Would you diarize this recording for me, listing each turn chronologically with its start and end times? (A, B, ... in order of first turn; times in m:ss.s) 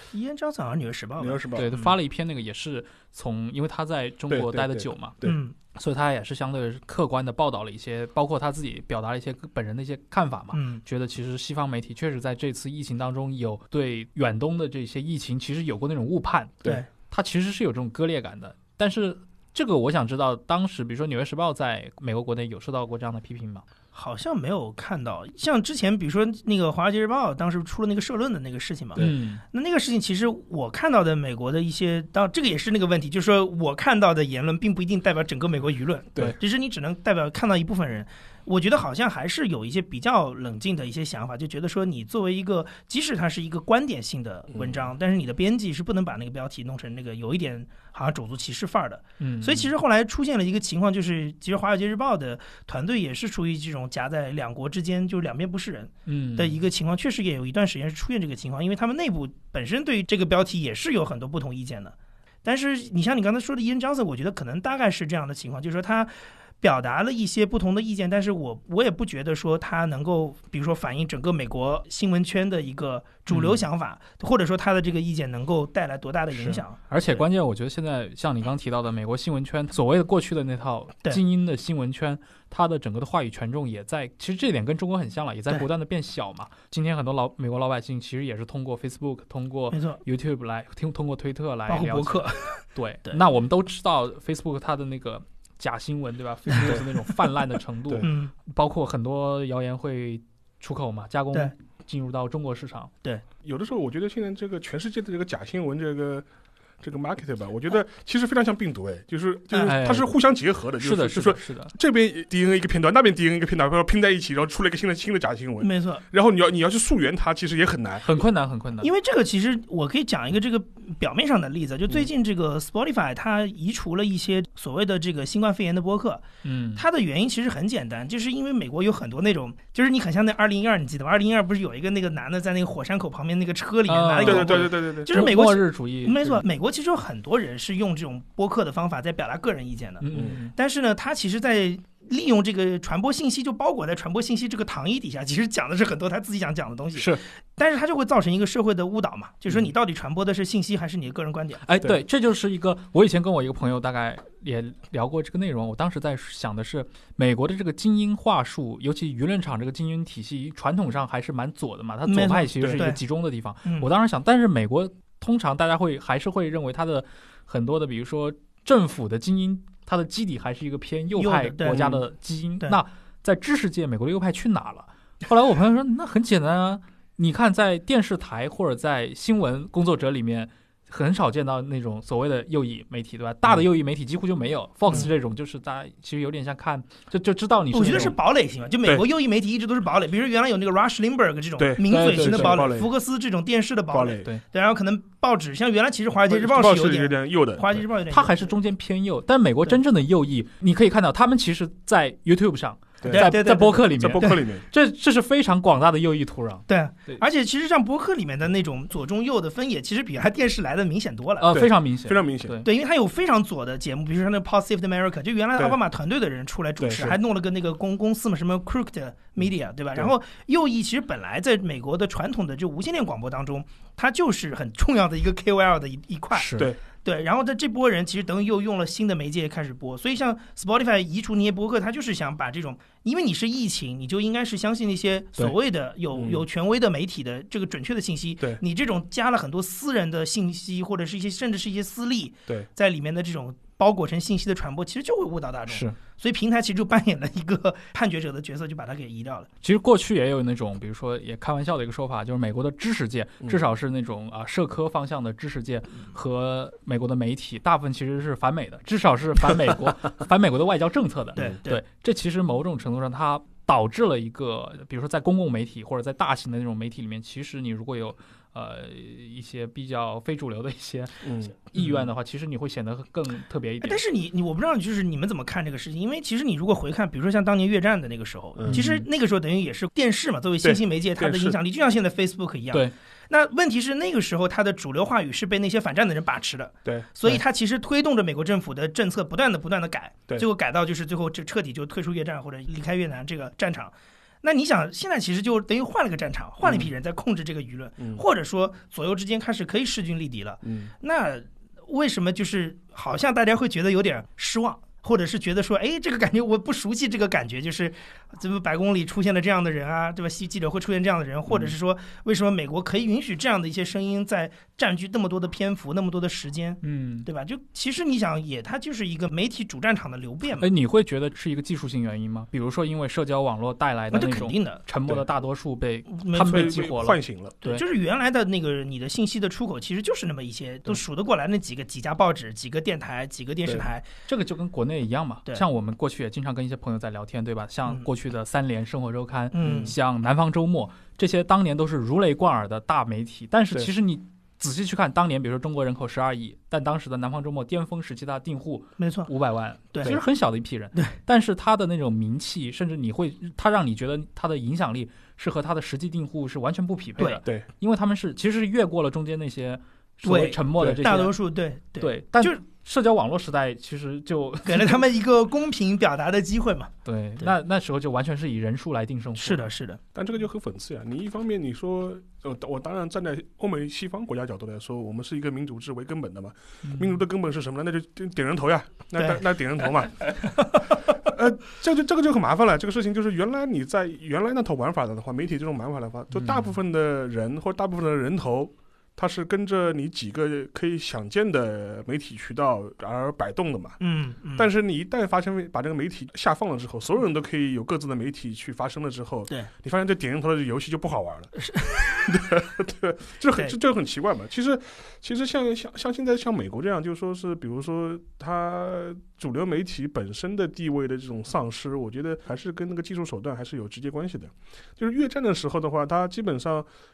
0:00.1-0:01.9 A
0:01.2-0:01.7 B
0:01.5-0:23.6 C
0:04.3-0:05.4 B
0:05.2-0:05.5 A
0:10.5-0:10.8 A
0:23.9-1:17.2 A
0:29.0-0:29.4 C
0:44.5-0:44.9 B
0:49.2-0:49.7 C
0:56.0-0:56.6 C
1:13.3-1:13.6 C
1:16.3-1:42.9 C
1:29.7-1:30.0 A
1:31.7-1:33.2 A
1:38.0-1:38.3 A
1:43.4-1:46.3 B
1:46.8-1:58.2 B
1:49.6-1:50.1 C
1:50.8-1:51.7 C
1:55.6-1:56.0 A
1:58.0-1:58.9 C
1:58.8-2:06.2 A
2:06.4-2:06.8 C
2:06.8-2:31.6 A
2:13.9-2:16.4 C
2:14.2-2:15.2 B
2:20.0-2:20.5 C
2:27.0-2:27.2 C
2:31.6-3:08.2 C
2:42.0-2:43.0 A
2:42.6-2:42.8 B
2:51.2-2:52.0 A
3:07.7-3:18.5 A
3:11.6-3:12.9 B
3:11.9-3:12.7 C
3:13.9-3:14.3 B
3:16.3-3:17.8 B
3:18.1-3:27.2 C
3:23.0-3:23.4 B
3:23.1-3:24.4 A
3:23.9-3:24.6 B
3:26.7-3:31.5 A
3:31.4-3:32.7 C
3:31.5-3:32.6 B
3:32.6-4:09.5 A
3:36.8-3:37.2 B
3:46.3-3:46.7 C
3:56.1-3:56.4 B
4:05.7-4:06.0 C
4:09.6-4:34.0 C
4:21.4-4:21.8 A
4:31.2-4:31.9 B
4:33.8-5:20.7 A
4:38.6-4:38.8 B
4:38.7-4:39.0 C
4:40.6-4:41.6 B
5:00.6-5:00.9 B
5:16.8-5:17.3 C
5:20.6-5:27.8 C
5:24.1-5:24.8 A
5:26.1-5:26.9 A
5:26.4-5:27.5 B
5:27.6-5:34.1 A
5:34.3-6:01.4 C
5:39.5-5:39.9 A
5:39.6-5:39.9 B
5:49.0-5:49.3 A
6:00.2-6:02.6 A
6:00.8-6:01.0 B
6:02.0-6:05.0 C
6:04.6-6:07.5 A
6:07.0-6:09.7 C
6:09.4-6:10.0 A
6:10.1-6:20.6 B
6:16.8-6:17.2 C
6:19.2-6:19.4 A
6:20.4-6:21.1 A
6:21.2-6:34.0 B
6:26.4-6:26.7 C
6:34.0-6:34.7 A
6:34.6-6:41.5 B
6:41.6-6:42.3 A
6:42.2-6:56.9 B